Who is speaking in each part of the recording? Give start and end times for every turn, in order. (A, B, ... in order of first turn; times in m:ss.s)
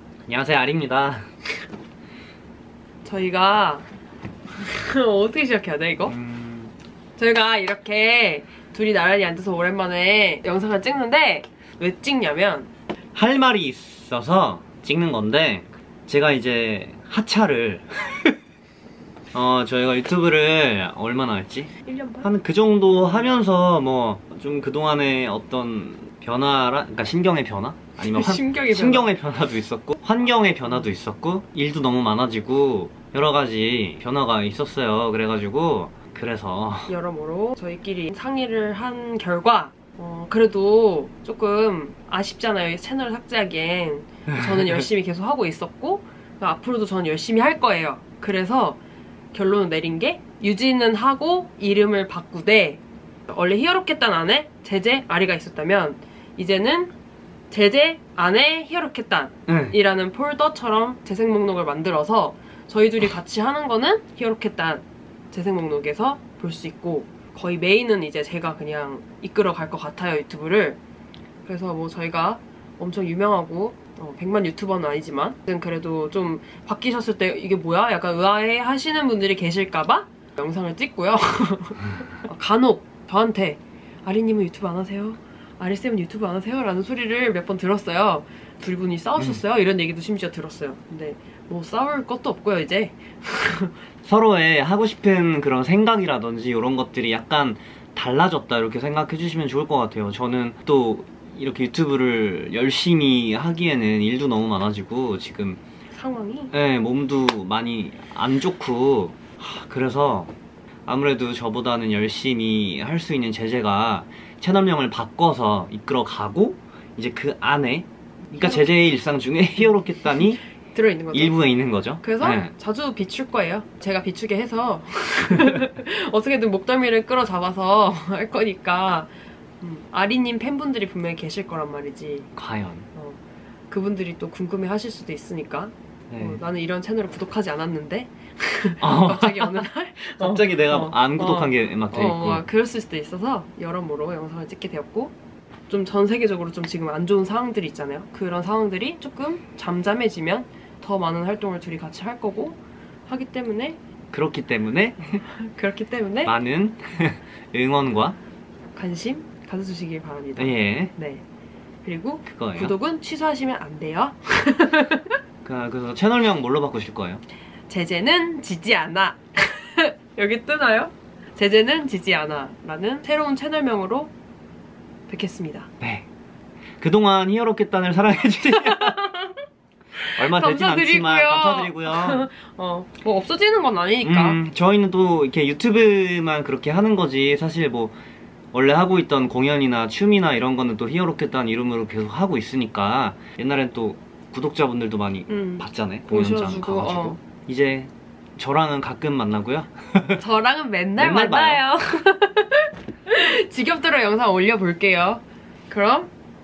0:00.3-0:01.3 A
0:03.0-0:03.9 B
0:04.6-0:06.2 B
0:06.1-0:06.7 A
0:07.2-0:12.7 B
0:13.1-0:18.3 A
0:19.3-0:36.9 A
0:21.9-0:22.3 B
0:28.0-0:29.1 B
0:36.9-0:48.8 B
0:44.4-0:44.7 A
0:49.3-0:56.9 B
0:57.5-1:10.8 B
0:59.5-0:59.8 A
1:11.4-1:33.8 B
1:34.0-1:45.6 A
1:45.9-1:46.5 B
1:46.5-1:50.3 A
1:50.9-2:00.4 A
1:58.3-1:58.7 B
2:00.7-2:01.4 B
2:01.1-2:02.5 A
2:02.0-2:09.1 B
2:09.6-2:12.3 B
2:12.4-2:12.9 A
2:12.9-2:25.1 B
2:16.1-2:16.4 A
2:18.8-2:22.5 A
2:25.7-2:33.8 B
2:34.1-2:35.2 A
2:35.0-2:36.3 B
2:36.2-2:38.2 A
2:38.8-2:41.2 B
2:40.4-2:40.9 A
2:41.8-2:45.2 B
2:42.3-2:42.8 A
2:45.4-2:47.2 A
2:47.7-2:54.1 B
2:55.1-2:55.7 B
2:55.8-2:56.1 A
2:56.8-2:59.0 A
2:58.4-2:59.4 B
3:00.0-3:04.4 B
3:00.2-3:02.3 A
3:04.0-3:08.0 A
3:08.5-3:20.2 A
3:15.3-3:17.2 B
3:20.2-3:26.1 B
3:21.0-3:21.6 A